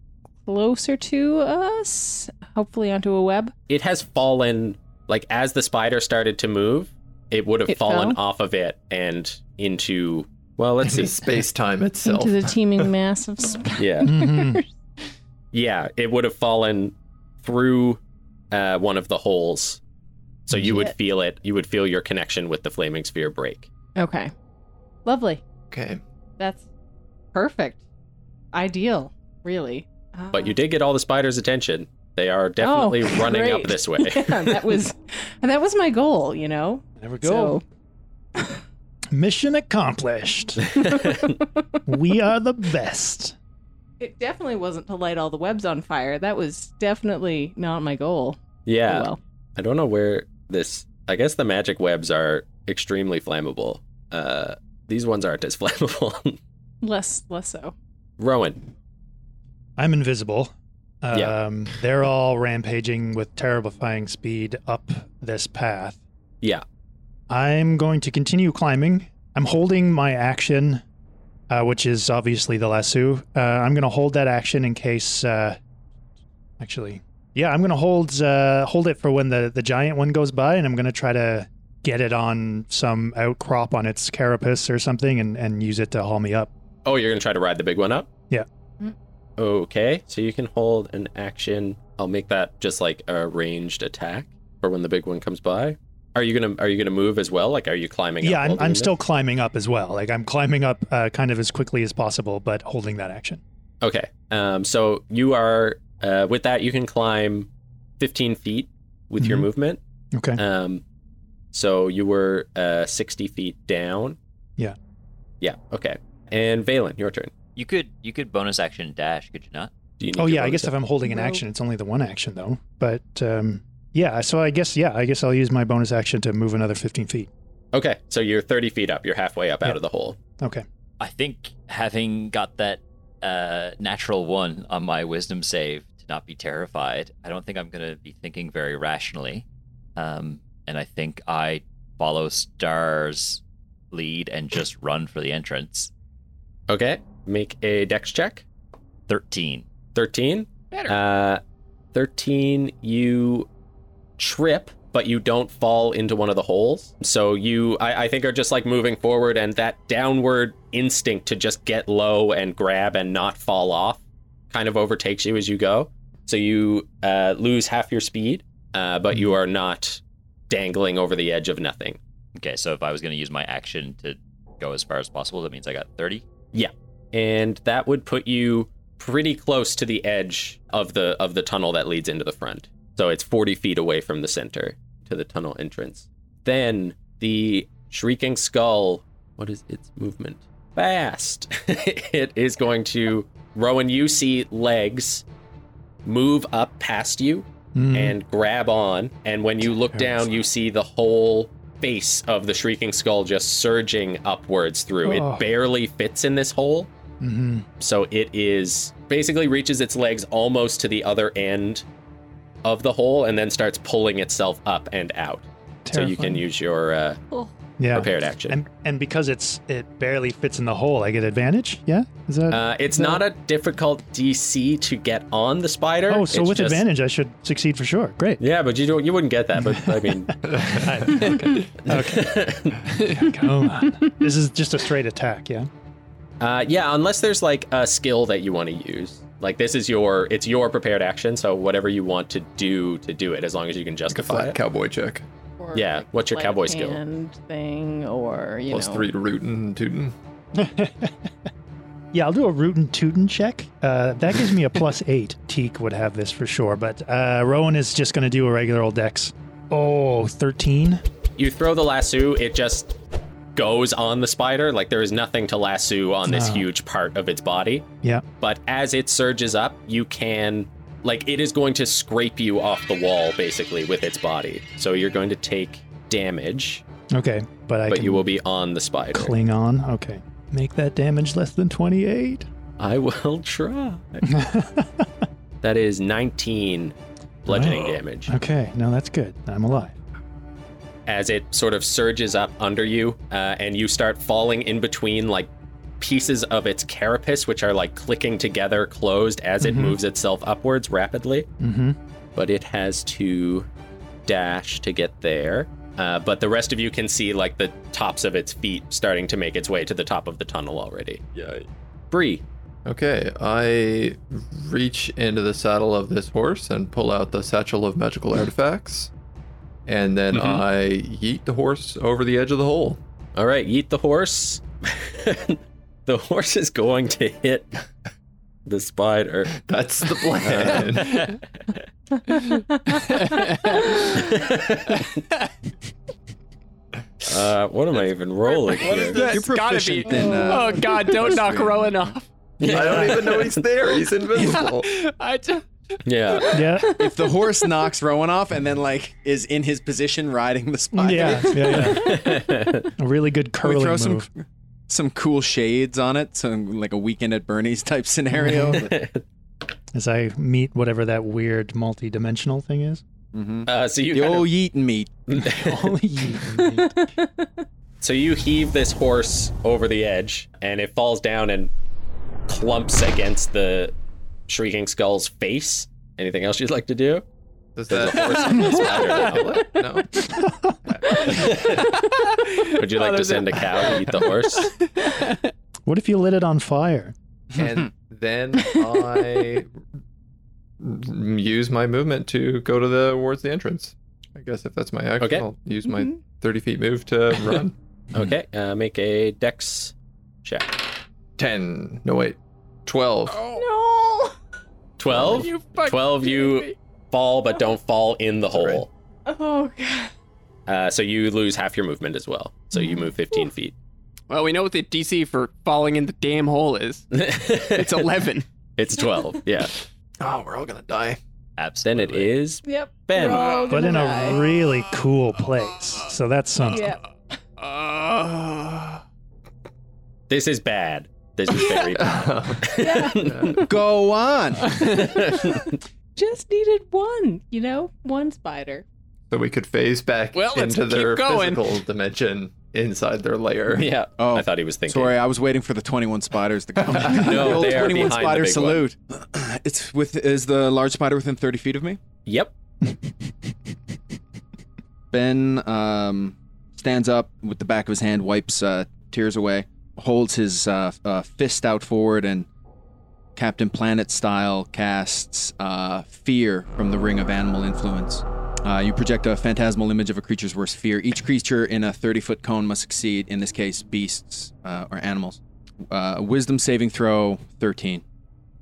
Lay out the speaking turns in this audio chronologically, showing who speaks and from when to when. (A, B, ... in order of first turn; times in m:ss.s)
0:00.4-0:03.5 A
0:03.7-0:11.2 B
0:07.7-0:08.2 A
0:10.8-0:12.9 C
0:12.0-0:14.6 A
0:13.8-0:14.1 B
0:14.0-0:14.6 D
0:15.5-0:18.0 B
0:18.5-0:19.8 B
0:20.5-0:23.7 B
0:20.6-0:20.9 A
0:24.0-0:24.3 A
0:25.0-0:25.4 A
0:25.7-0:26.0 C
0:26.4-0:26.6 A
0:27.3-0:27.8 A
0:28.5-0:30.6 A
0:30.3-0:34.8 B
0:32.6-0:37.6 A
0:37.0-0:37.6 D
0:39.1-0:40.8 D
0:41.9-0:43.3 D
0:44.0-0:49.2 A
0:48.6-0:56.4 B
0:56.8-0:57.7 A
0:58.2-0:58.7 B
0:59.8-1:00.5 D
1:01.0-1:06.0 D
1:07.3-1:10.8 D
1:11.5-1:15.6 D
1:16.6-1:26.5 D
1:26.8-1:28.1 B
1:29.4-1:38.9 B
1:38.2-1:43.4 D
1:43.8-1:49.8 B
1:49.2-1:49.5 D
1:50.1-1:50.4 D
1:50.4-1:50.8 B
1:51.5-1:54.2 B
1:55.4-1:57.3 B
1:57.6-1:59.7 E
2:00.0-2:00.7 B
2:00.2-2:07.3 D
2:01.0-2:01.4 A
2:07.7-2:10.2 B
2:10.4-2:10.6 D
2:11.0-2:19.4 E
2:20.0-2:25.9 E
2:26.7-2:28.4 B
2:29.1-2:29.6 E
2:29.9-2:31.4 B
2:30.7-2:31.0 F
2:31.9-2:33.5 B
2:34.2-2:52.0 B
2:52.4-2:56.2 E
2:56.5-3:15.2 B
3:16.0-3:26.9 B
3:17.7-3:18.2 D
3:19.7-3:20.3 D
3:25.0-3:25.5 D
3:27.2-3:27.6 D
3:27.8-3:31.8 B
3:32.6-3:37.2 B
3:35.8-3:36.4 D
3:37.8-3:43.2 D
3:37.9-3:38.6 B
3:42.5-3:46.8 B
3:46.1-3:48.4 D
3:48.4-3:50.4 B
3:49.6-3:55.7 D
3:50.5-3:51.6 C
3:51.0-3:52.8 B
3:53.0-3:53.3 F
3:56.4-4:04.6 B
4:04.1-4:05.2 C
4:05.6-4:09.1 A
4:05.7-4:07.0 B
4:08.7-4:10.1 C
4:10.6-4:11.1 D
4:12.1-4:21.0 D
4:21.4-4:22.9 B
4:23.5-4:27.8 B
4:26.2-4:26.7 D
4:28.4-4:36.8 B
4:37.1-4:38.2 D
4:37.9-4:39.3 B
4:39.1-4:42.5 D
4:42.8-4:44.3 B
4:44.2-4:45.1 D
4:45.6-4:48.3 B
4:47.5-4:50.0 D
4:51.1-4:55.5 B
4:56.0-5:01.5 B
4:59.6-5:00.0 D
5:01.6-5:02.0 D
5:02.4-5:03.7 B
5:04.3-5:11.4 B
5:12.1-5:12.4 B
5:12.8-5:19.1 C
5:19.9-5:23.0 C
5:20.3-5:20.6 B
5:23.3-5:27.7 B
5:28.6-5:29.6 B
5:29.6-5:31.3 C
5:30.4-5:31.3 B
5:32.3-5:33.0 A
5:33.0-5:34.4 F
5:34.1-5:35.2 B
5:35.0-5:35.5 F
5:37.2-5:39.3 B
5:38.5-5:43.2 F
5:38.9-5:42.2 G
5:40.2-5:40.5 A
5:42.6-5:43.6 B
5:42.6-5:44.9 C
5:44.3-5:47.5 F
5:46.0-5:46.7 B
5:46.5-5:47.0 D
5:47.0-5:52.1 G
5:50.9-5:54.3 D
5:51.7-5:52.9 B
5:53.6-5:54.3 G
5:54.9-5:58.9 G
5:58.4-5:58.8 D
5:58.7-5:59.2 B
5:59.9-6:03.0 D
6:03.3-6:05.1 G
6:03.6-6:04.5 B
6:05.3-6:05.9 B
6:05.4-6:07.0 D
6:06.5-6:07.5 A
6:08.0-6:11.7 B
6:12.5-6:13.9 B
6:14.5-6:17.2 B
6:17.8-6:20.3 C
6:17.9-6:19.7 B
6:20.2-6:20.8 D
6:20.8-6:21.8 C
6:21.2-6:22.0 B
6:21.4-6:25.5 F
6:22.7-6:24.7 B
6:25.8-6:27.1 D
6:27.5-6:29.7 C
6:30.8-6:37.7 C
6:35.2-6:35.4 B
6:38.1-6:39.9 B
6:40.4-6:40.8 B
6:41.4-6:43.4 C
6:43.3-6:43.7 F
6:43.5-6:44.3 A
6:45.0-6:48.9 B
6:45.2-6:46.7 F
6:48.5-6:48.8 C
6:49.2-6:50.1 A
6:50.7-6:53.7 B
6:54.3-6:58.4 F
6:57.1-6:58.1 B
6:58.8-6:59.7 B
7:00.2-7:01.2 C
7:01.6-7:02.3 E
7:01.8-7:03.7 B
7:02.6-7:04.4 A
7:03.2-7:04.4 F
7:03.7-7:06.9 D
7:06.7-7:07.0 A
7:07.6-7:09.0 F
7:10.3-7:13.6 B
7:11.6-7:11.9 F
7:11.9-7:13.6 C
7:12.8-7:13.6 A
7:13.6-7:14.8 G
7:14.7-7:15.0 F
7:14.7-7:15.7 B
7:15.2-7:18.8 A
7:19.3-7:23.9 C
7:20.3-7:21.7 F
7:23.7-7:25.1 B
7:24.2-7:32.0 G
7:26.9-7:28.8 B
7:32.2-7:32.5 B
7:35.1-7:42.5 G
7:43.4-7:58.0 G